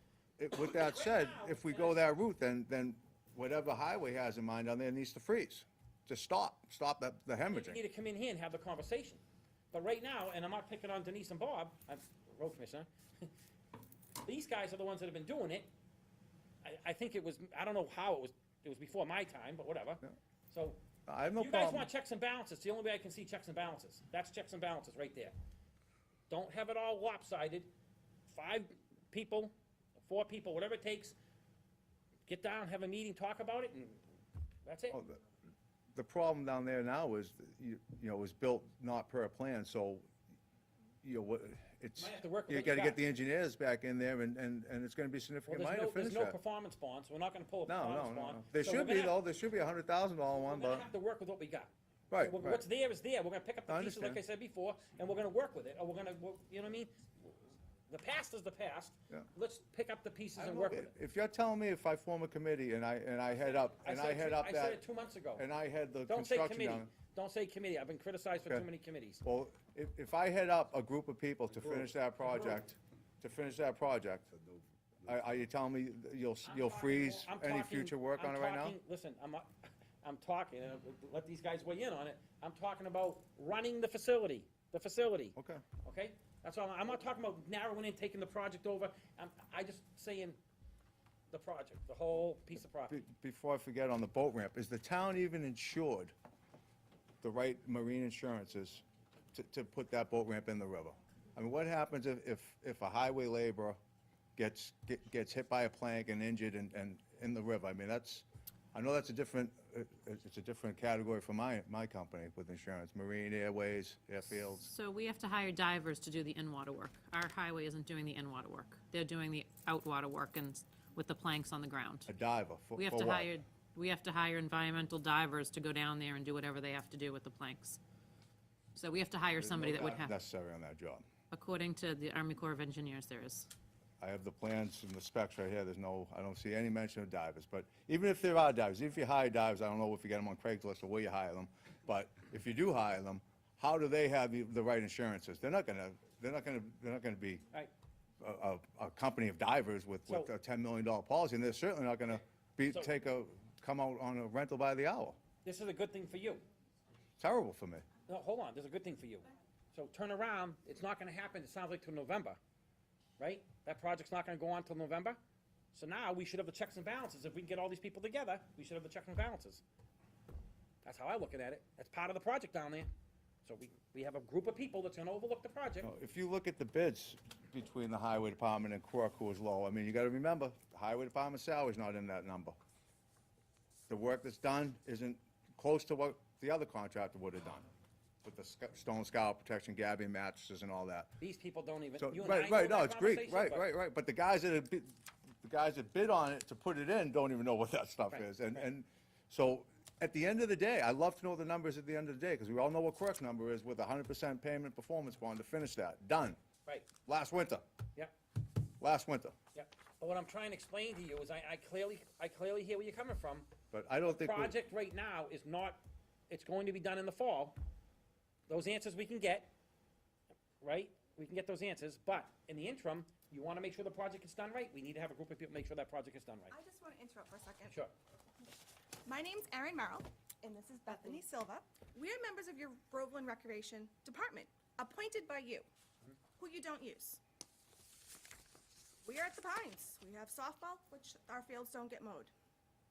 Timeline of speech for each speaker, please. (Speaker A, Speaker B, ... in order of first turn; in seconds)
Speaker A: 0.4-7.8, 21.1-21.9, 34.9-35.2, 35.9-40.1, 41.0-46.4, 47.6-50.9, 52.1-52.6, 53.7-54.2, 60.4-64.8, 65.3-66.9, 69.2-74.3, 75.0-78.8, 85.3-85.6, 92.9-96.1, 97.2-103.8, 104.3-114.7, 122.1-123.4, 129.3-131.0, 134.0-147.4, 148.2-155.2, 157.2-157.8, 175.8-182.6, 183.9-187.7, 188.2-191.2, 192.0-206.4, 207.1-207.6, 208.8-209.3, 213.7-214.5
Speaker B: 0.7-2.0, 7.5-13.3, 14.2-15.7, 16.6-20.8, 21.3-25.4, 26.3-27.7, 28.3-31.1, 32.2-34.0, 34.6-35.0, 42.0-43.0, 45.5-49.1, 50.3-56.9, 57.9-60.9, 63.4-65.4, 66.1-69.2, 76.4-90.4, 91.3-93.0, 150.1-150.3, 155.4-156.4, 158.1-162.4, 163.2-165.2, 165.7-169.6, 170.8-172.9, 173.4-175.9, 191.2-193.6, 209.5-213.5, 214.0-217.6, 218.5-219.5, 220.6-226.5
Speaker C: 114.6-122.1, 122.8-127.8, 128.7-130.1, 131.3-133.5
Speaker D: 226.5-227.8, 229.0-235.7, 236.4-237.2, 239.0-242.3